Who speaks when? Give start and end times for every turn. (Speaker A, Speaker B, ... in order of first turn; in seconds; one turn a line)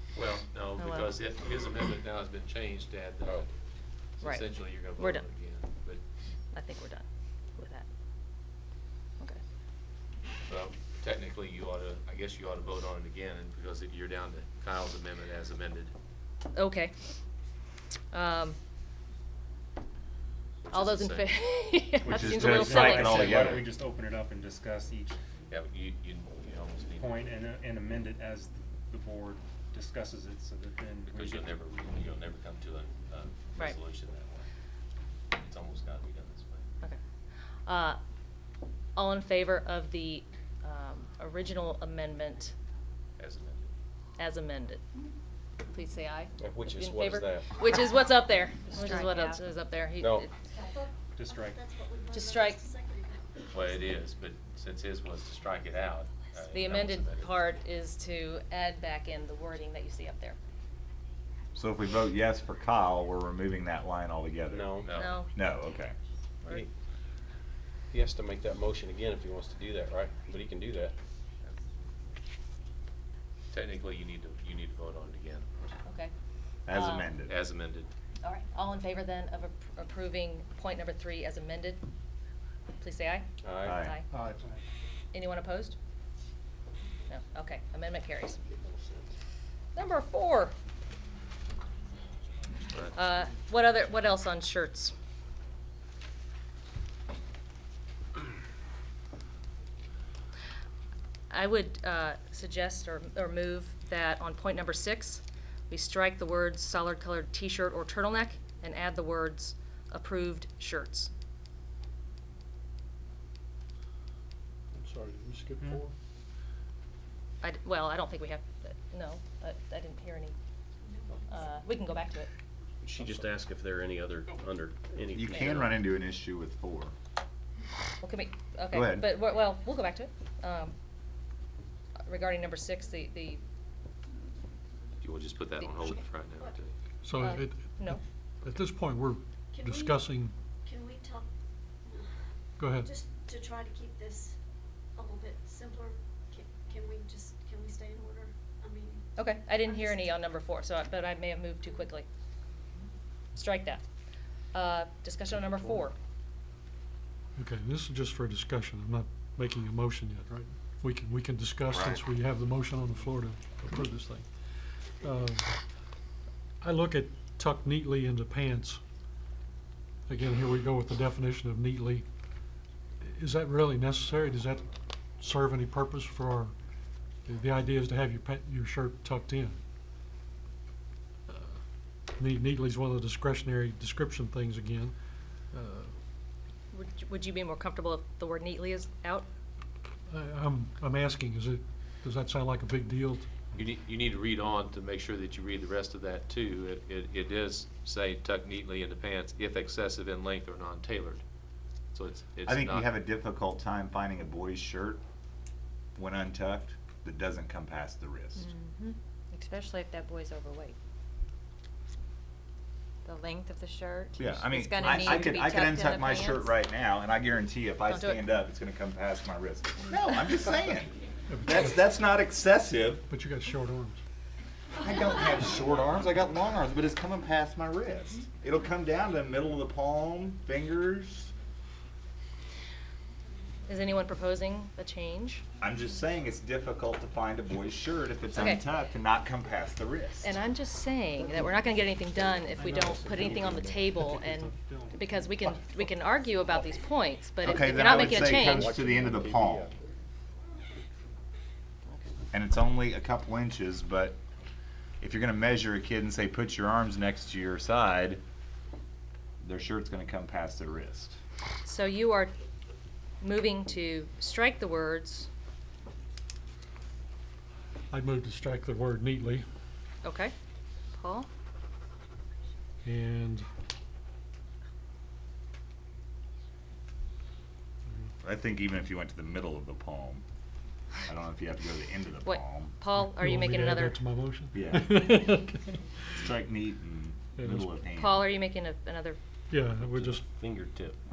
Speaker A: 0.1-3.5
Speaker B: 0.8-1.1
Speaker A: 4.2-6.0
Speaker B: 5.0-5.2
Speaker B: 6.5-7.0
Speaker B: 7.6-7.9
Speaker A: 10.4-15.9
Speaker B: 16.5-16.9
Speaker B: 18.1-18.6
Speaker A: 20.7-21.3
Speaker B: 20.7-23.6
Speaker C: 22.0-25.2
Speaker D: 22.1-23.7
Speaker A: 22.4-22.6
Speaker A: 23.2-23.6
Speaker A: 25.5-27.4
Speaker C: 27.0-31.6
Speaker A: 31.0-34.5
Speaker A: 35.3-36.7
Speaker B: 37.7-38.0
Speaker B: 39.0-42.5
Speaker A: 43.2-43.7
Speaker B: 44.2-44.8
Speaker B: 45.6-50.3
Speaker E: 46.4-47.5
Speaker F: 48.8-49.5
Speaker E: 50.0-50.3
Speaker G: 50.5-53.8
Speaker C: 51.2-51.6
Speaker B: 52.1-52.6
Speaker A: 53.5-57.4
Speaker B: 56.5-60.4
Speaker D: 61.5-64.8
Speaker E: 64.5-64.9
Speaker A: 64.8-65.2
Speaker B: 64.9-65.3
Speaker D: 65.3-66.0
Speaker E: 67.9-70.9
Speaker A: 73.5-75.5
Speaker B: 75.8-76.1
Speaker D: 76.7-77.4
Speaker B: 76.7-77.1
Speaker A: 77.3-77.9
Speaker B: 78.2-81.8
Speaker B: 82.8-84.1
Speaker E: 83.4-83.8
Speaker D: 83.6-84.0
Speaker C: 84.1-84.6
Speaker B: 85.1-85.8
Speaker B: 87.1-88.4
Speaker E: 88.5-89.1
Speaker B: 89.8-90.5
Speaker B: 92.9-94.9
Speaker B: 101.3-111.1
Speaker H: 114.8-115.9
Speaker C: 115.6-115.8
Speaker B: 117.4-120.3
Speaker G: 120.9-121.1
Speaker B: 121.3-122.3
Speaker E: 122.8-125.7
Speaker H: 122.9-123.2
Speaker D: 125.1-126.9
Speaker B: 128.0-130.8
Speaker D: 128.7-129.1
Speaker B: 132.1-133.4
Speaker A: 135.0-136.7
Speaker H: 137.0-140.3
Speaker B: 137.2-138.0
Speaker G: 139.5-140.0
Speaker G: 140.6-141.3
Speaker H: 142.6-142.9
Speaker G: 142.8-144.4
Speaker G: 145.0-149.1
Speaker B: 149.2-152.1
Speaker B: 153.3-153.8
Speaker B: 154.5-155.9
Speaker H: 157.4-165.6
Speaker D: 161.7-162.0
Speaker H: 166.6-168.8
Speaker H: 170.1-172.1
Speaker H: 173.0-176.5
Speaker H: 177.2-179.6
Speaker H: 181.3-181.6
Speaker H: 182.2-184.9
Speaker H: 185.5-185.9
Speaker B: 186.7-189.3
Speaker H: 190.1-193.3
Speaker A: 193.5-201.2
Speaker A: 201.9-203.0
Speaker D: 202.5-205.0
Speaker D: 206.0-208.5
Speaker F: 208.4-210.8
Speaker F: 213.1-216.5
Speaker D: 214.2-223.0
Speaker B: 217.9-218.2
Speaker H: 221.3-221.8
Speaker H: 223.1-224.0
Speaker D: 224.8-231.3
Speaker B: 233.7-235.4
Speaker D: 235.6-240.3
Speaker B: 238.3-238.6
Speaker B: 240.2-248.7
Speaker C: 242.6-243.4
Speaker E: 242.6-243.9
Speaker C: 244.0-245.3
Speaker D: 247.4-249.7
Speaker E: 247.5-249.7
Speaker D: 252.3-254.2
Speaker D: 255.0-258.2
Speaker D: 259.4-261.2
Speaker B: 261.6-262.3
Speaker B: 263.2-265.3
Speaker H: 267.9-269.4
Speaker B: 270.0-270.3
Speaker B: 270.9-271.3
Speaker H: 272.8-273.5
Speaker D: 278.2-280.2
Speaker D: 281.1-282.7
Speaker B: 282.2-284.0
Speaker H: 282.9-285.8
Speaker D: 284.5-285.1
Speaker D: 286.2-288.4
Speaker H: 287.4-287.7
Speaker B: 287.9-289.2
Speaker H: 289.5-290.2
Speaker E: 289.7-291.0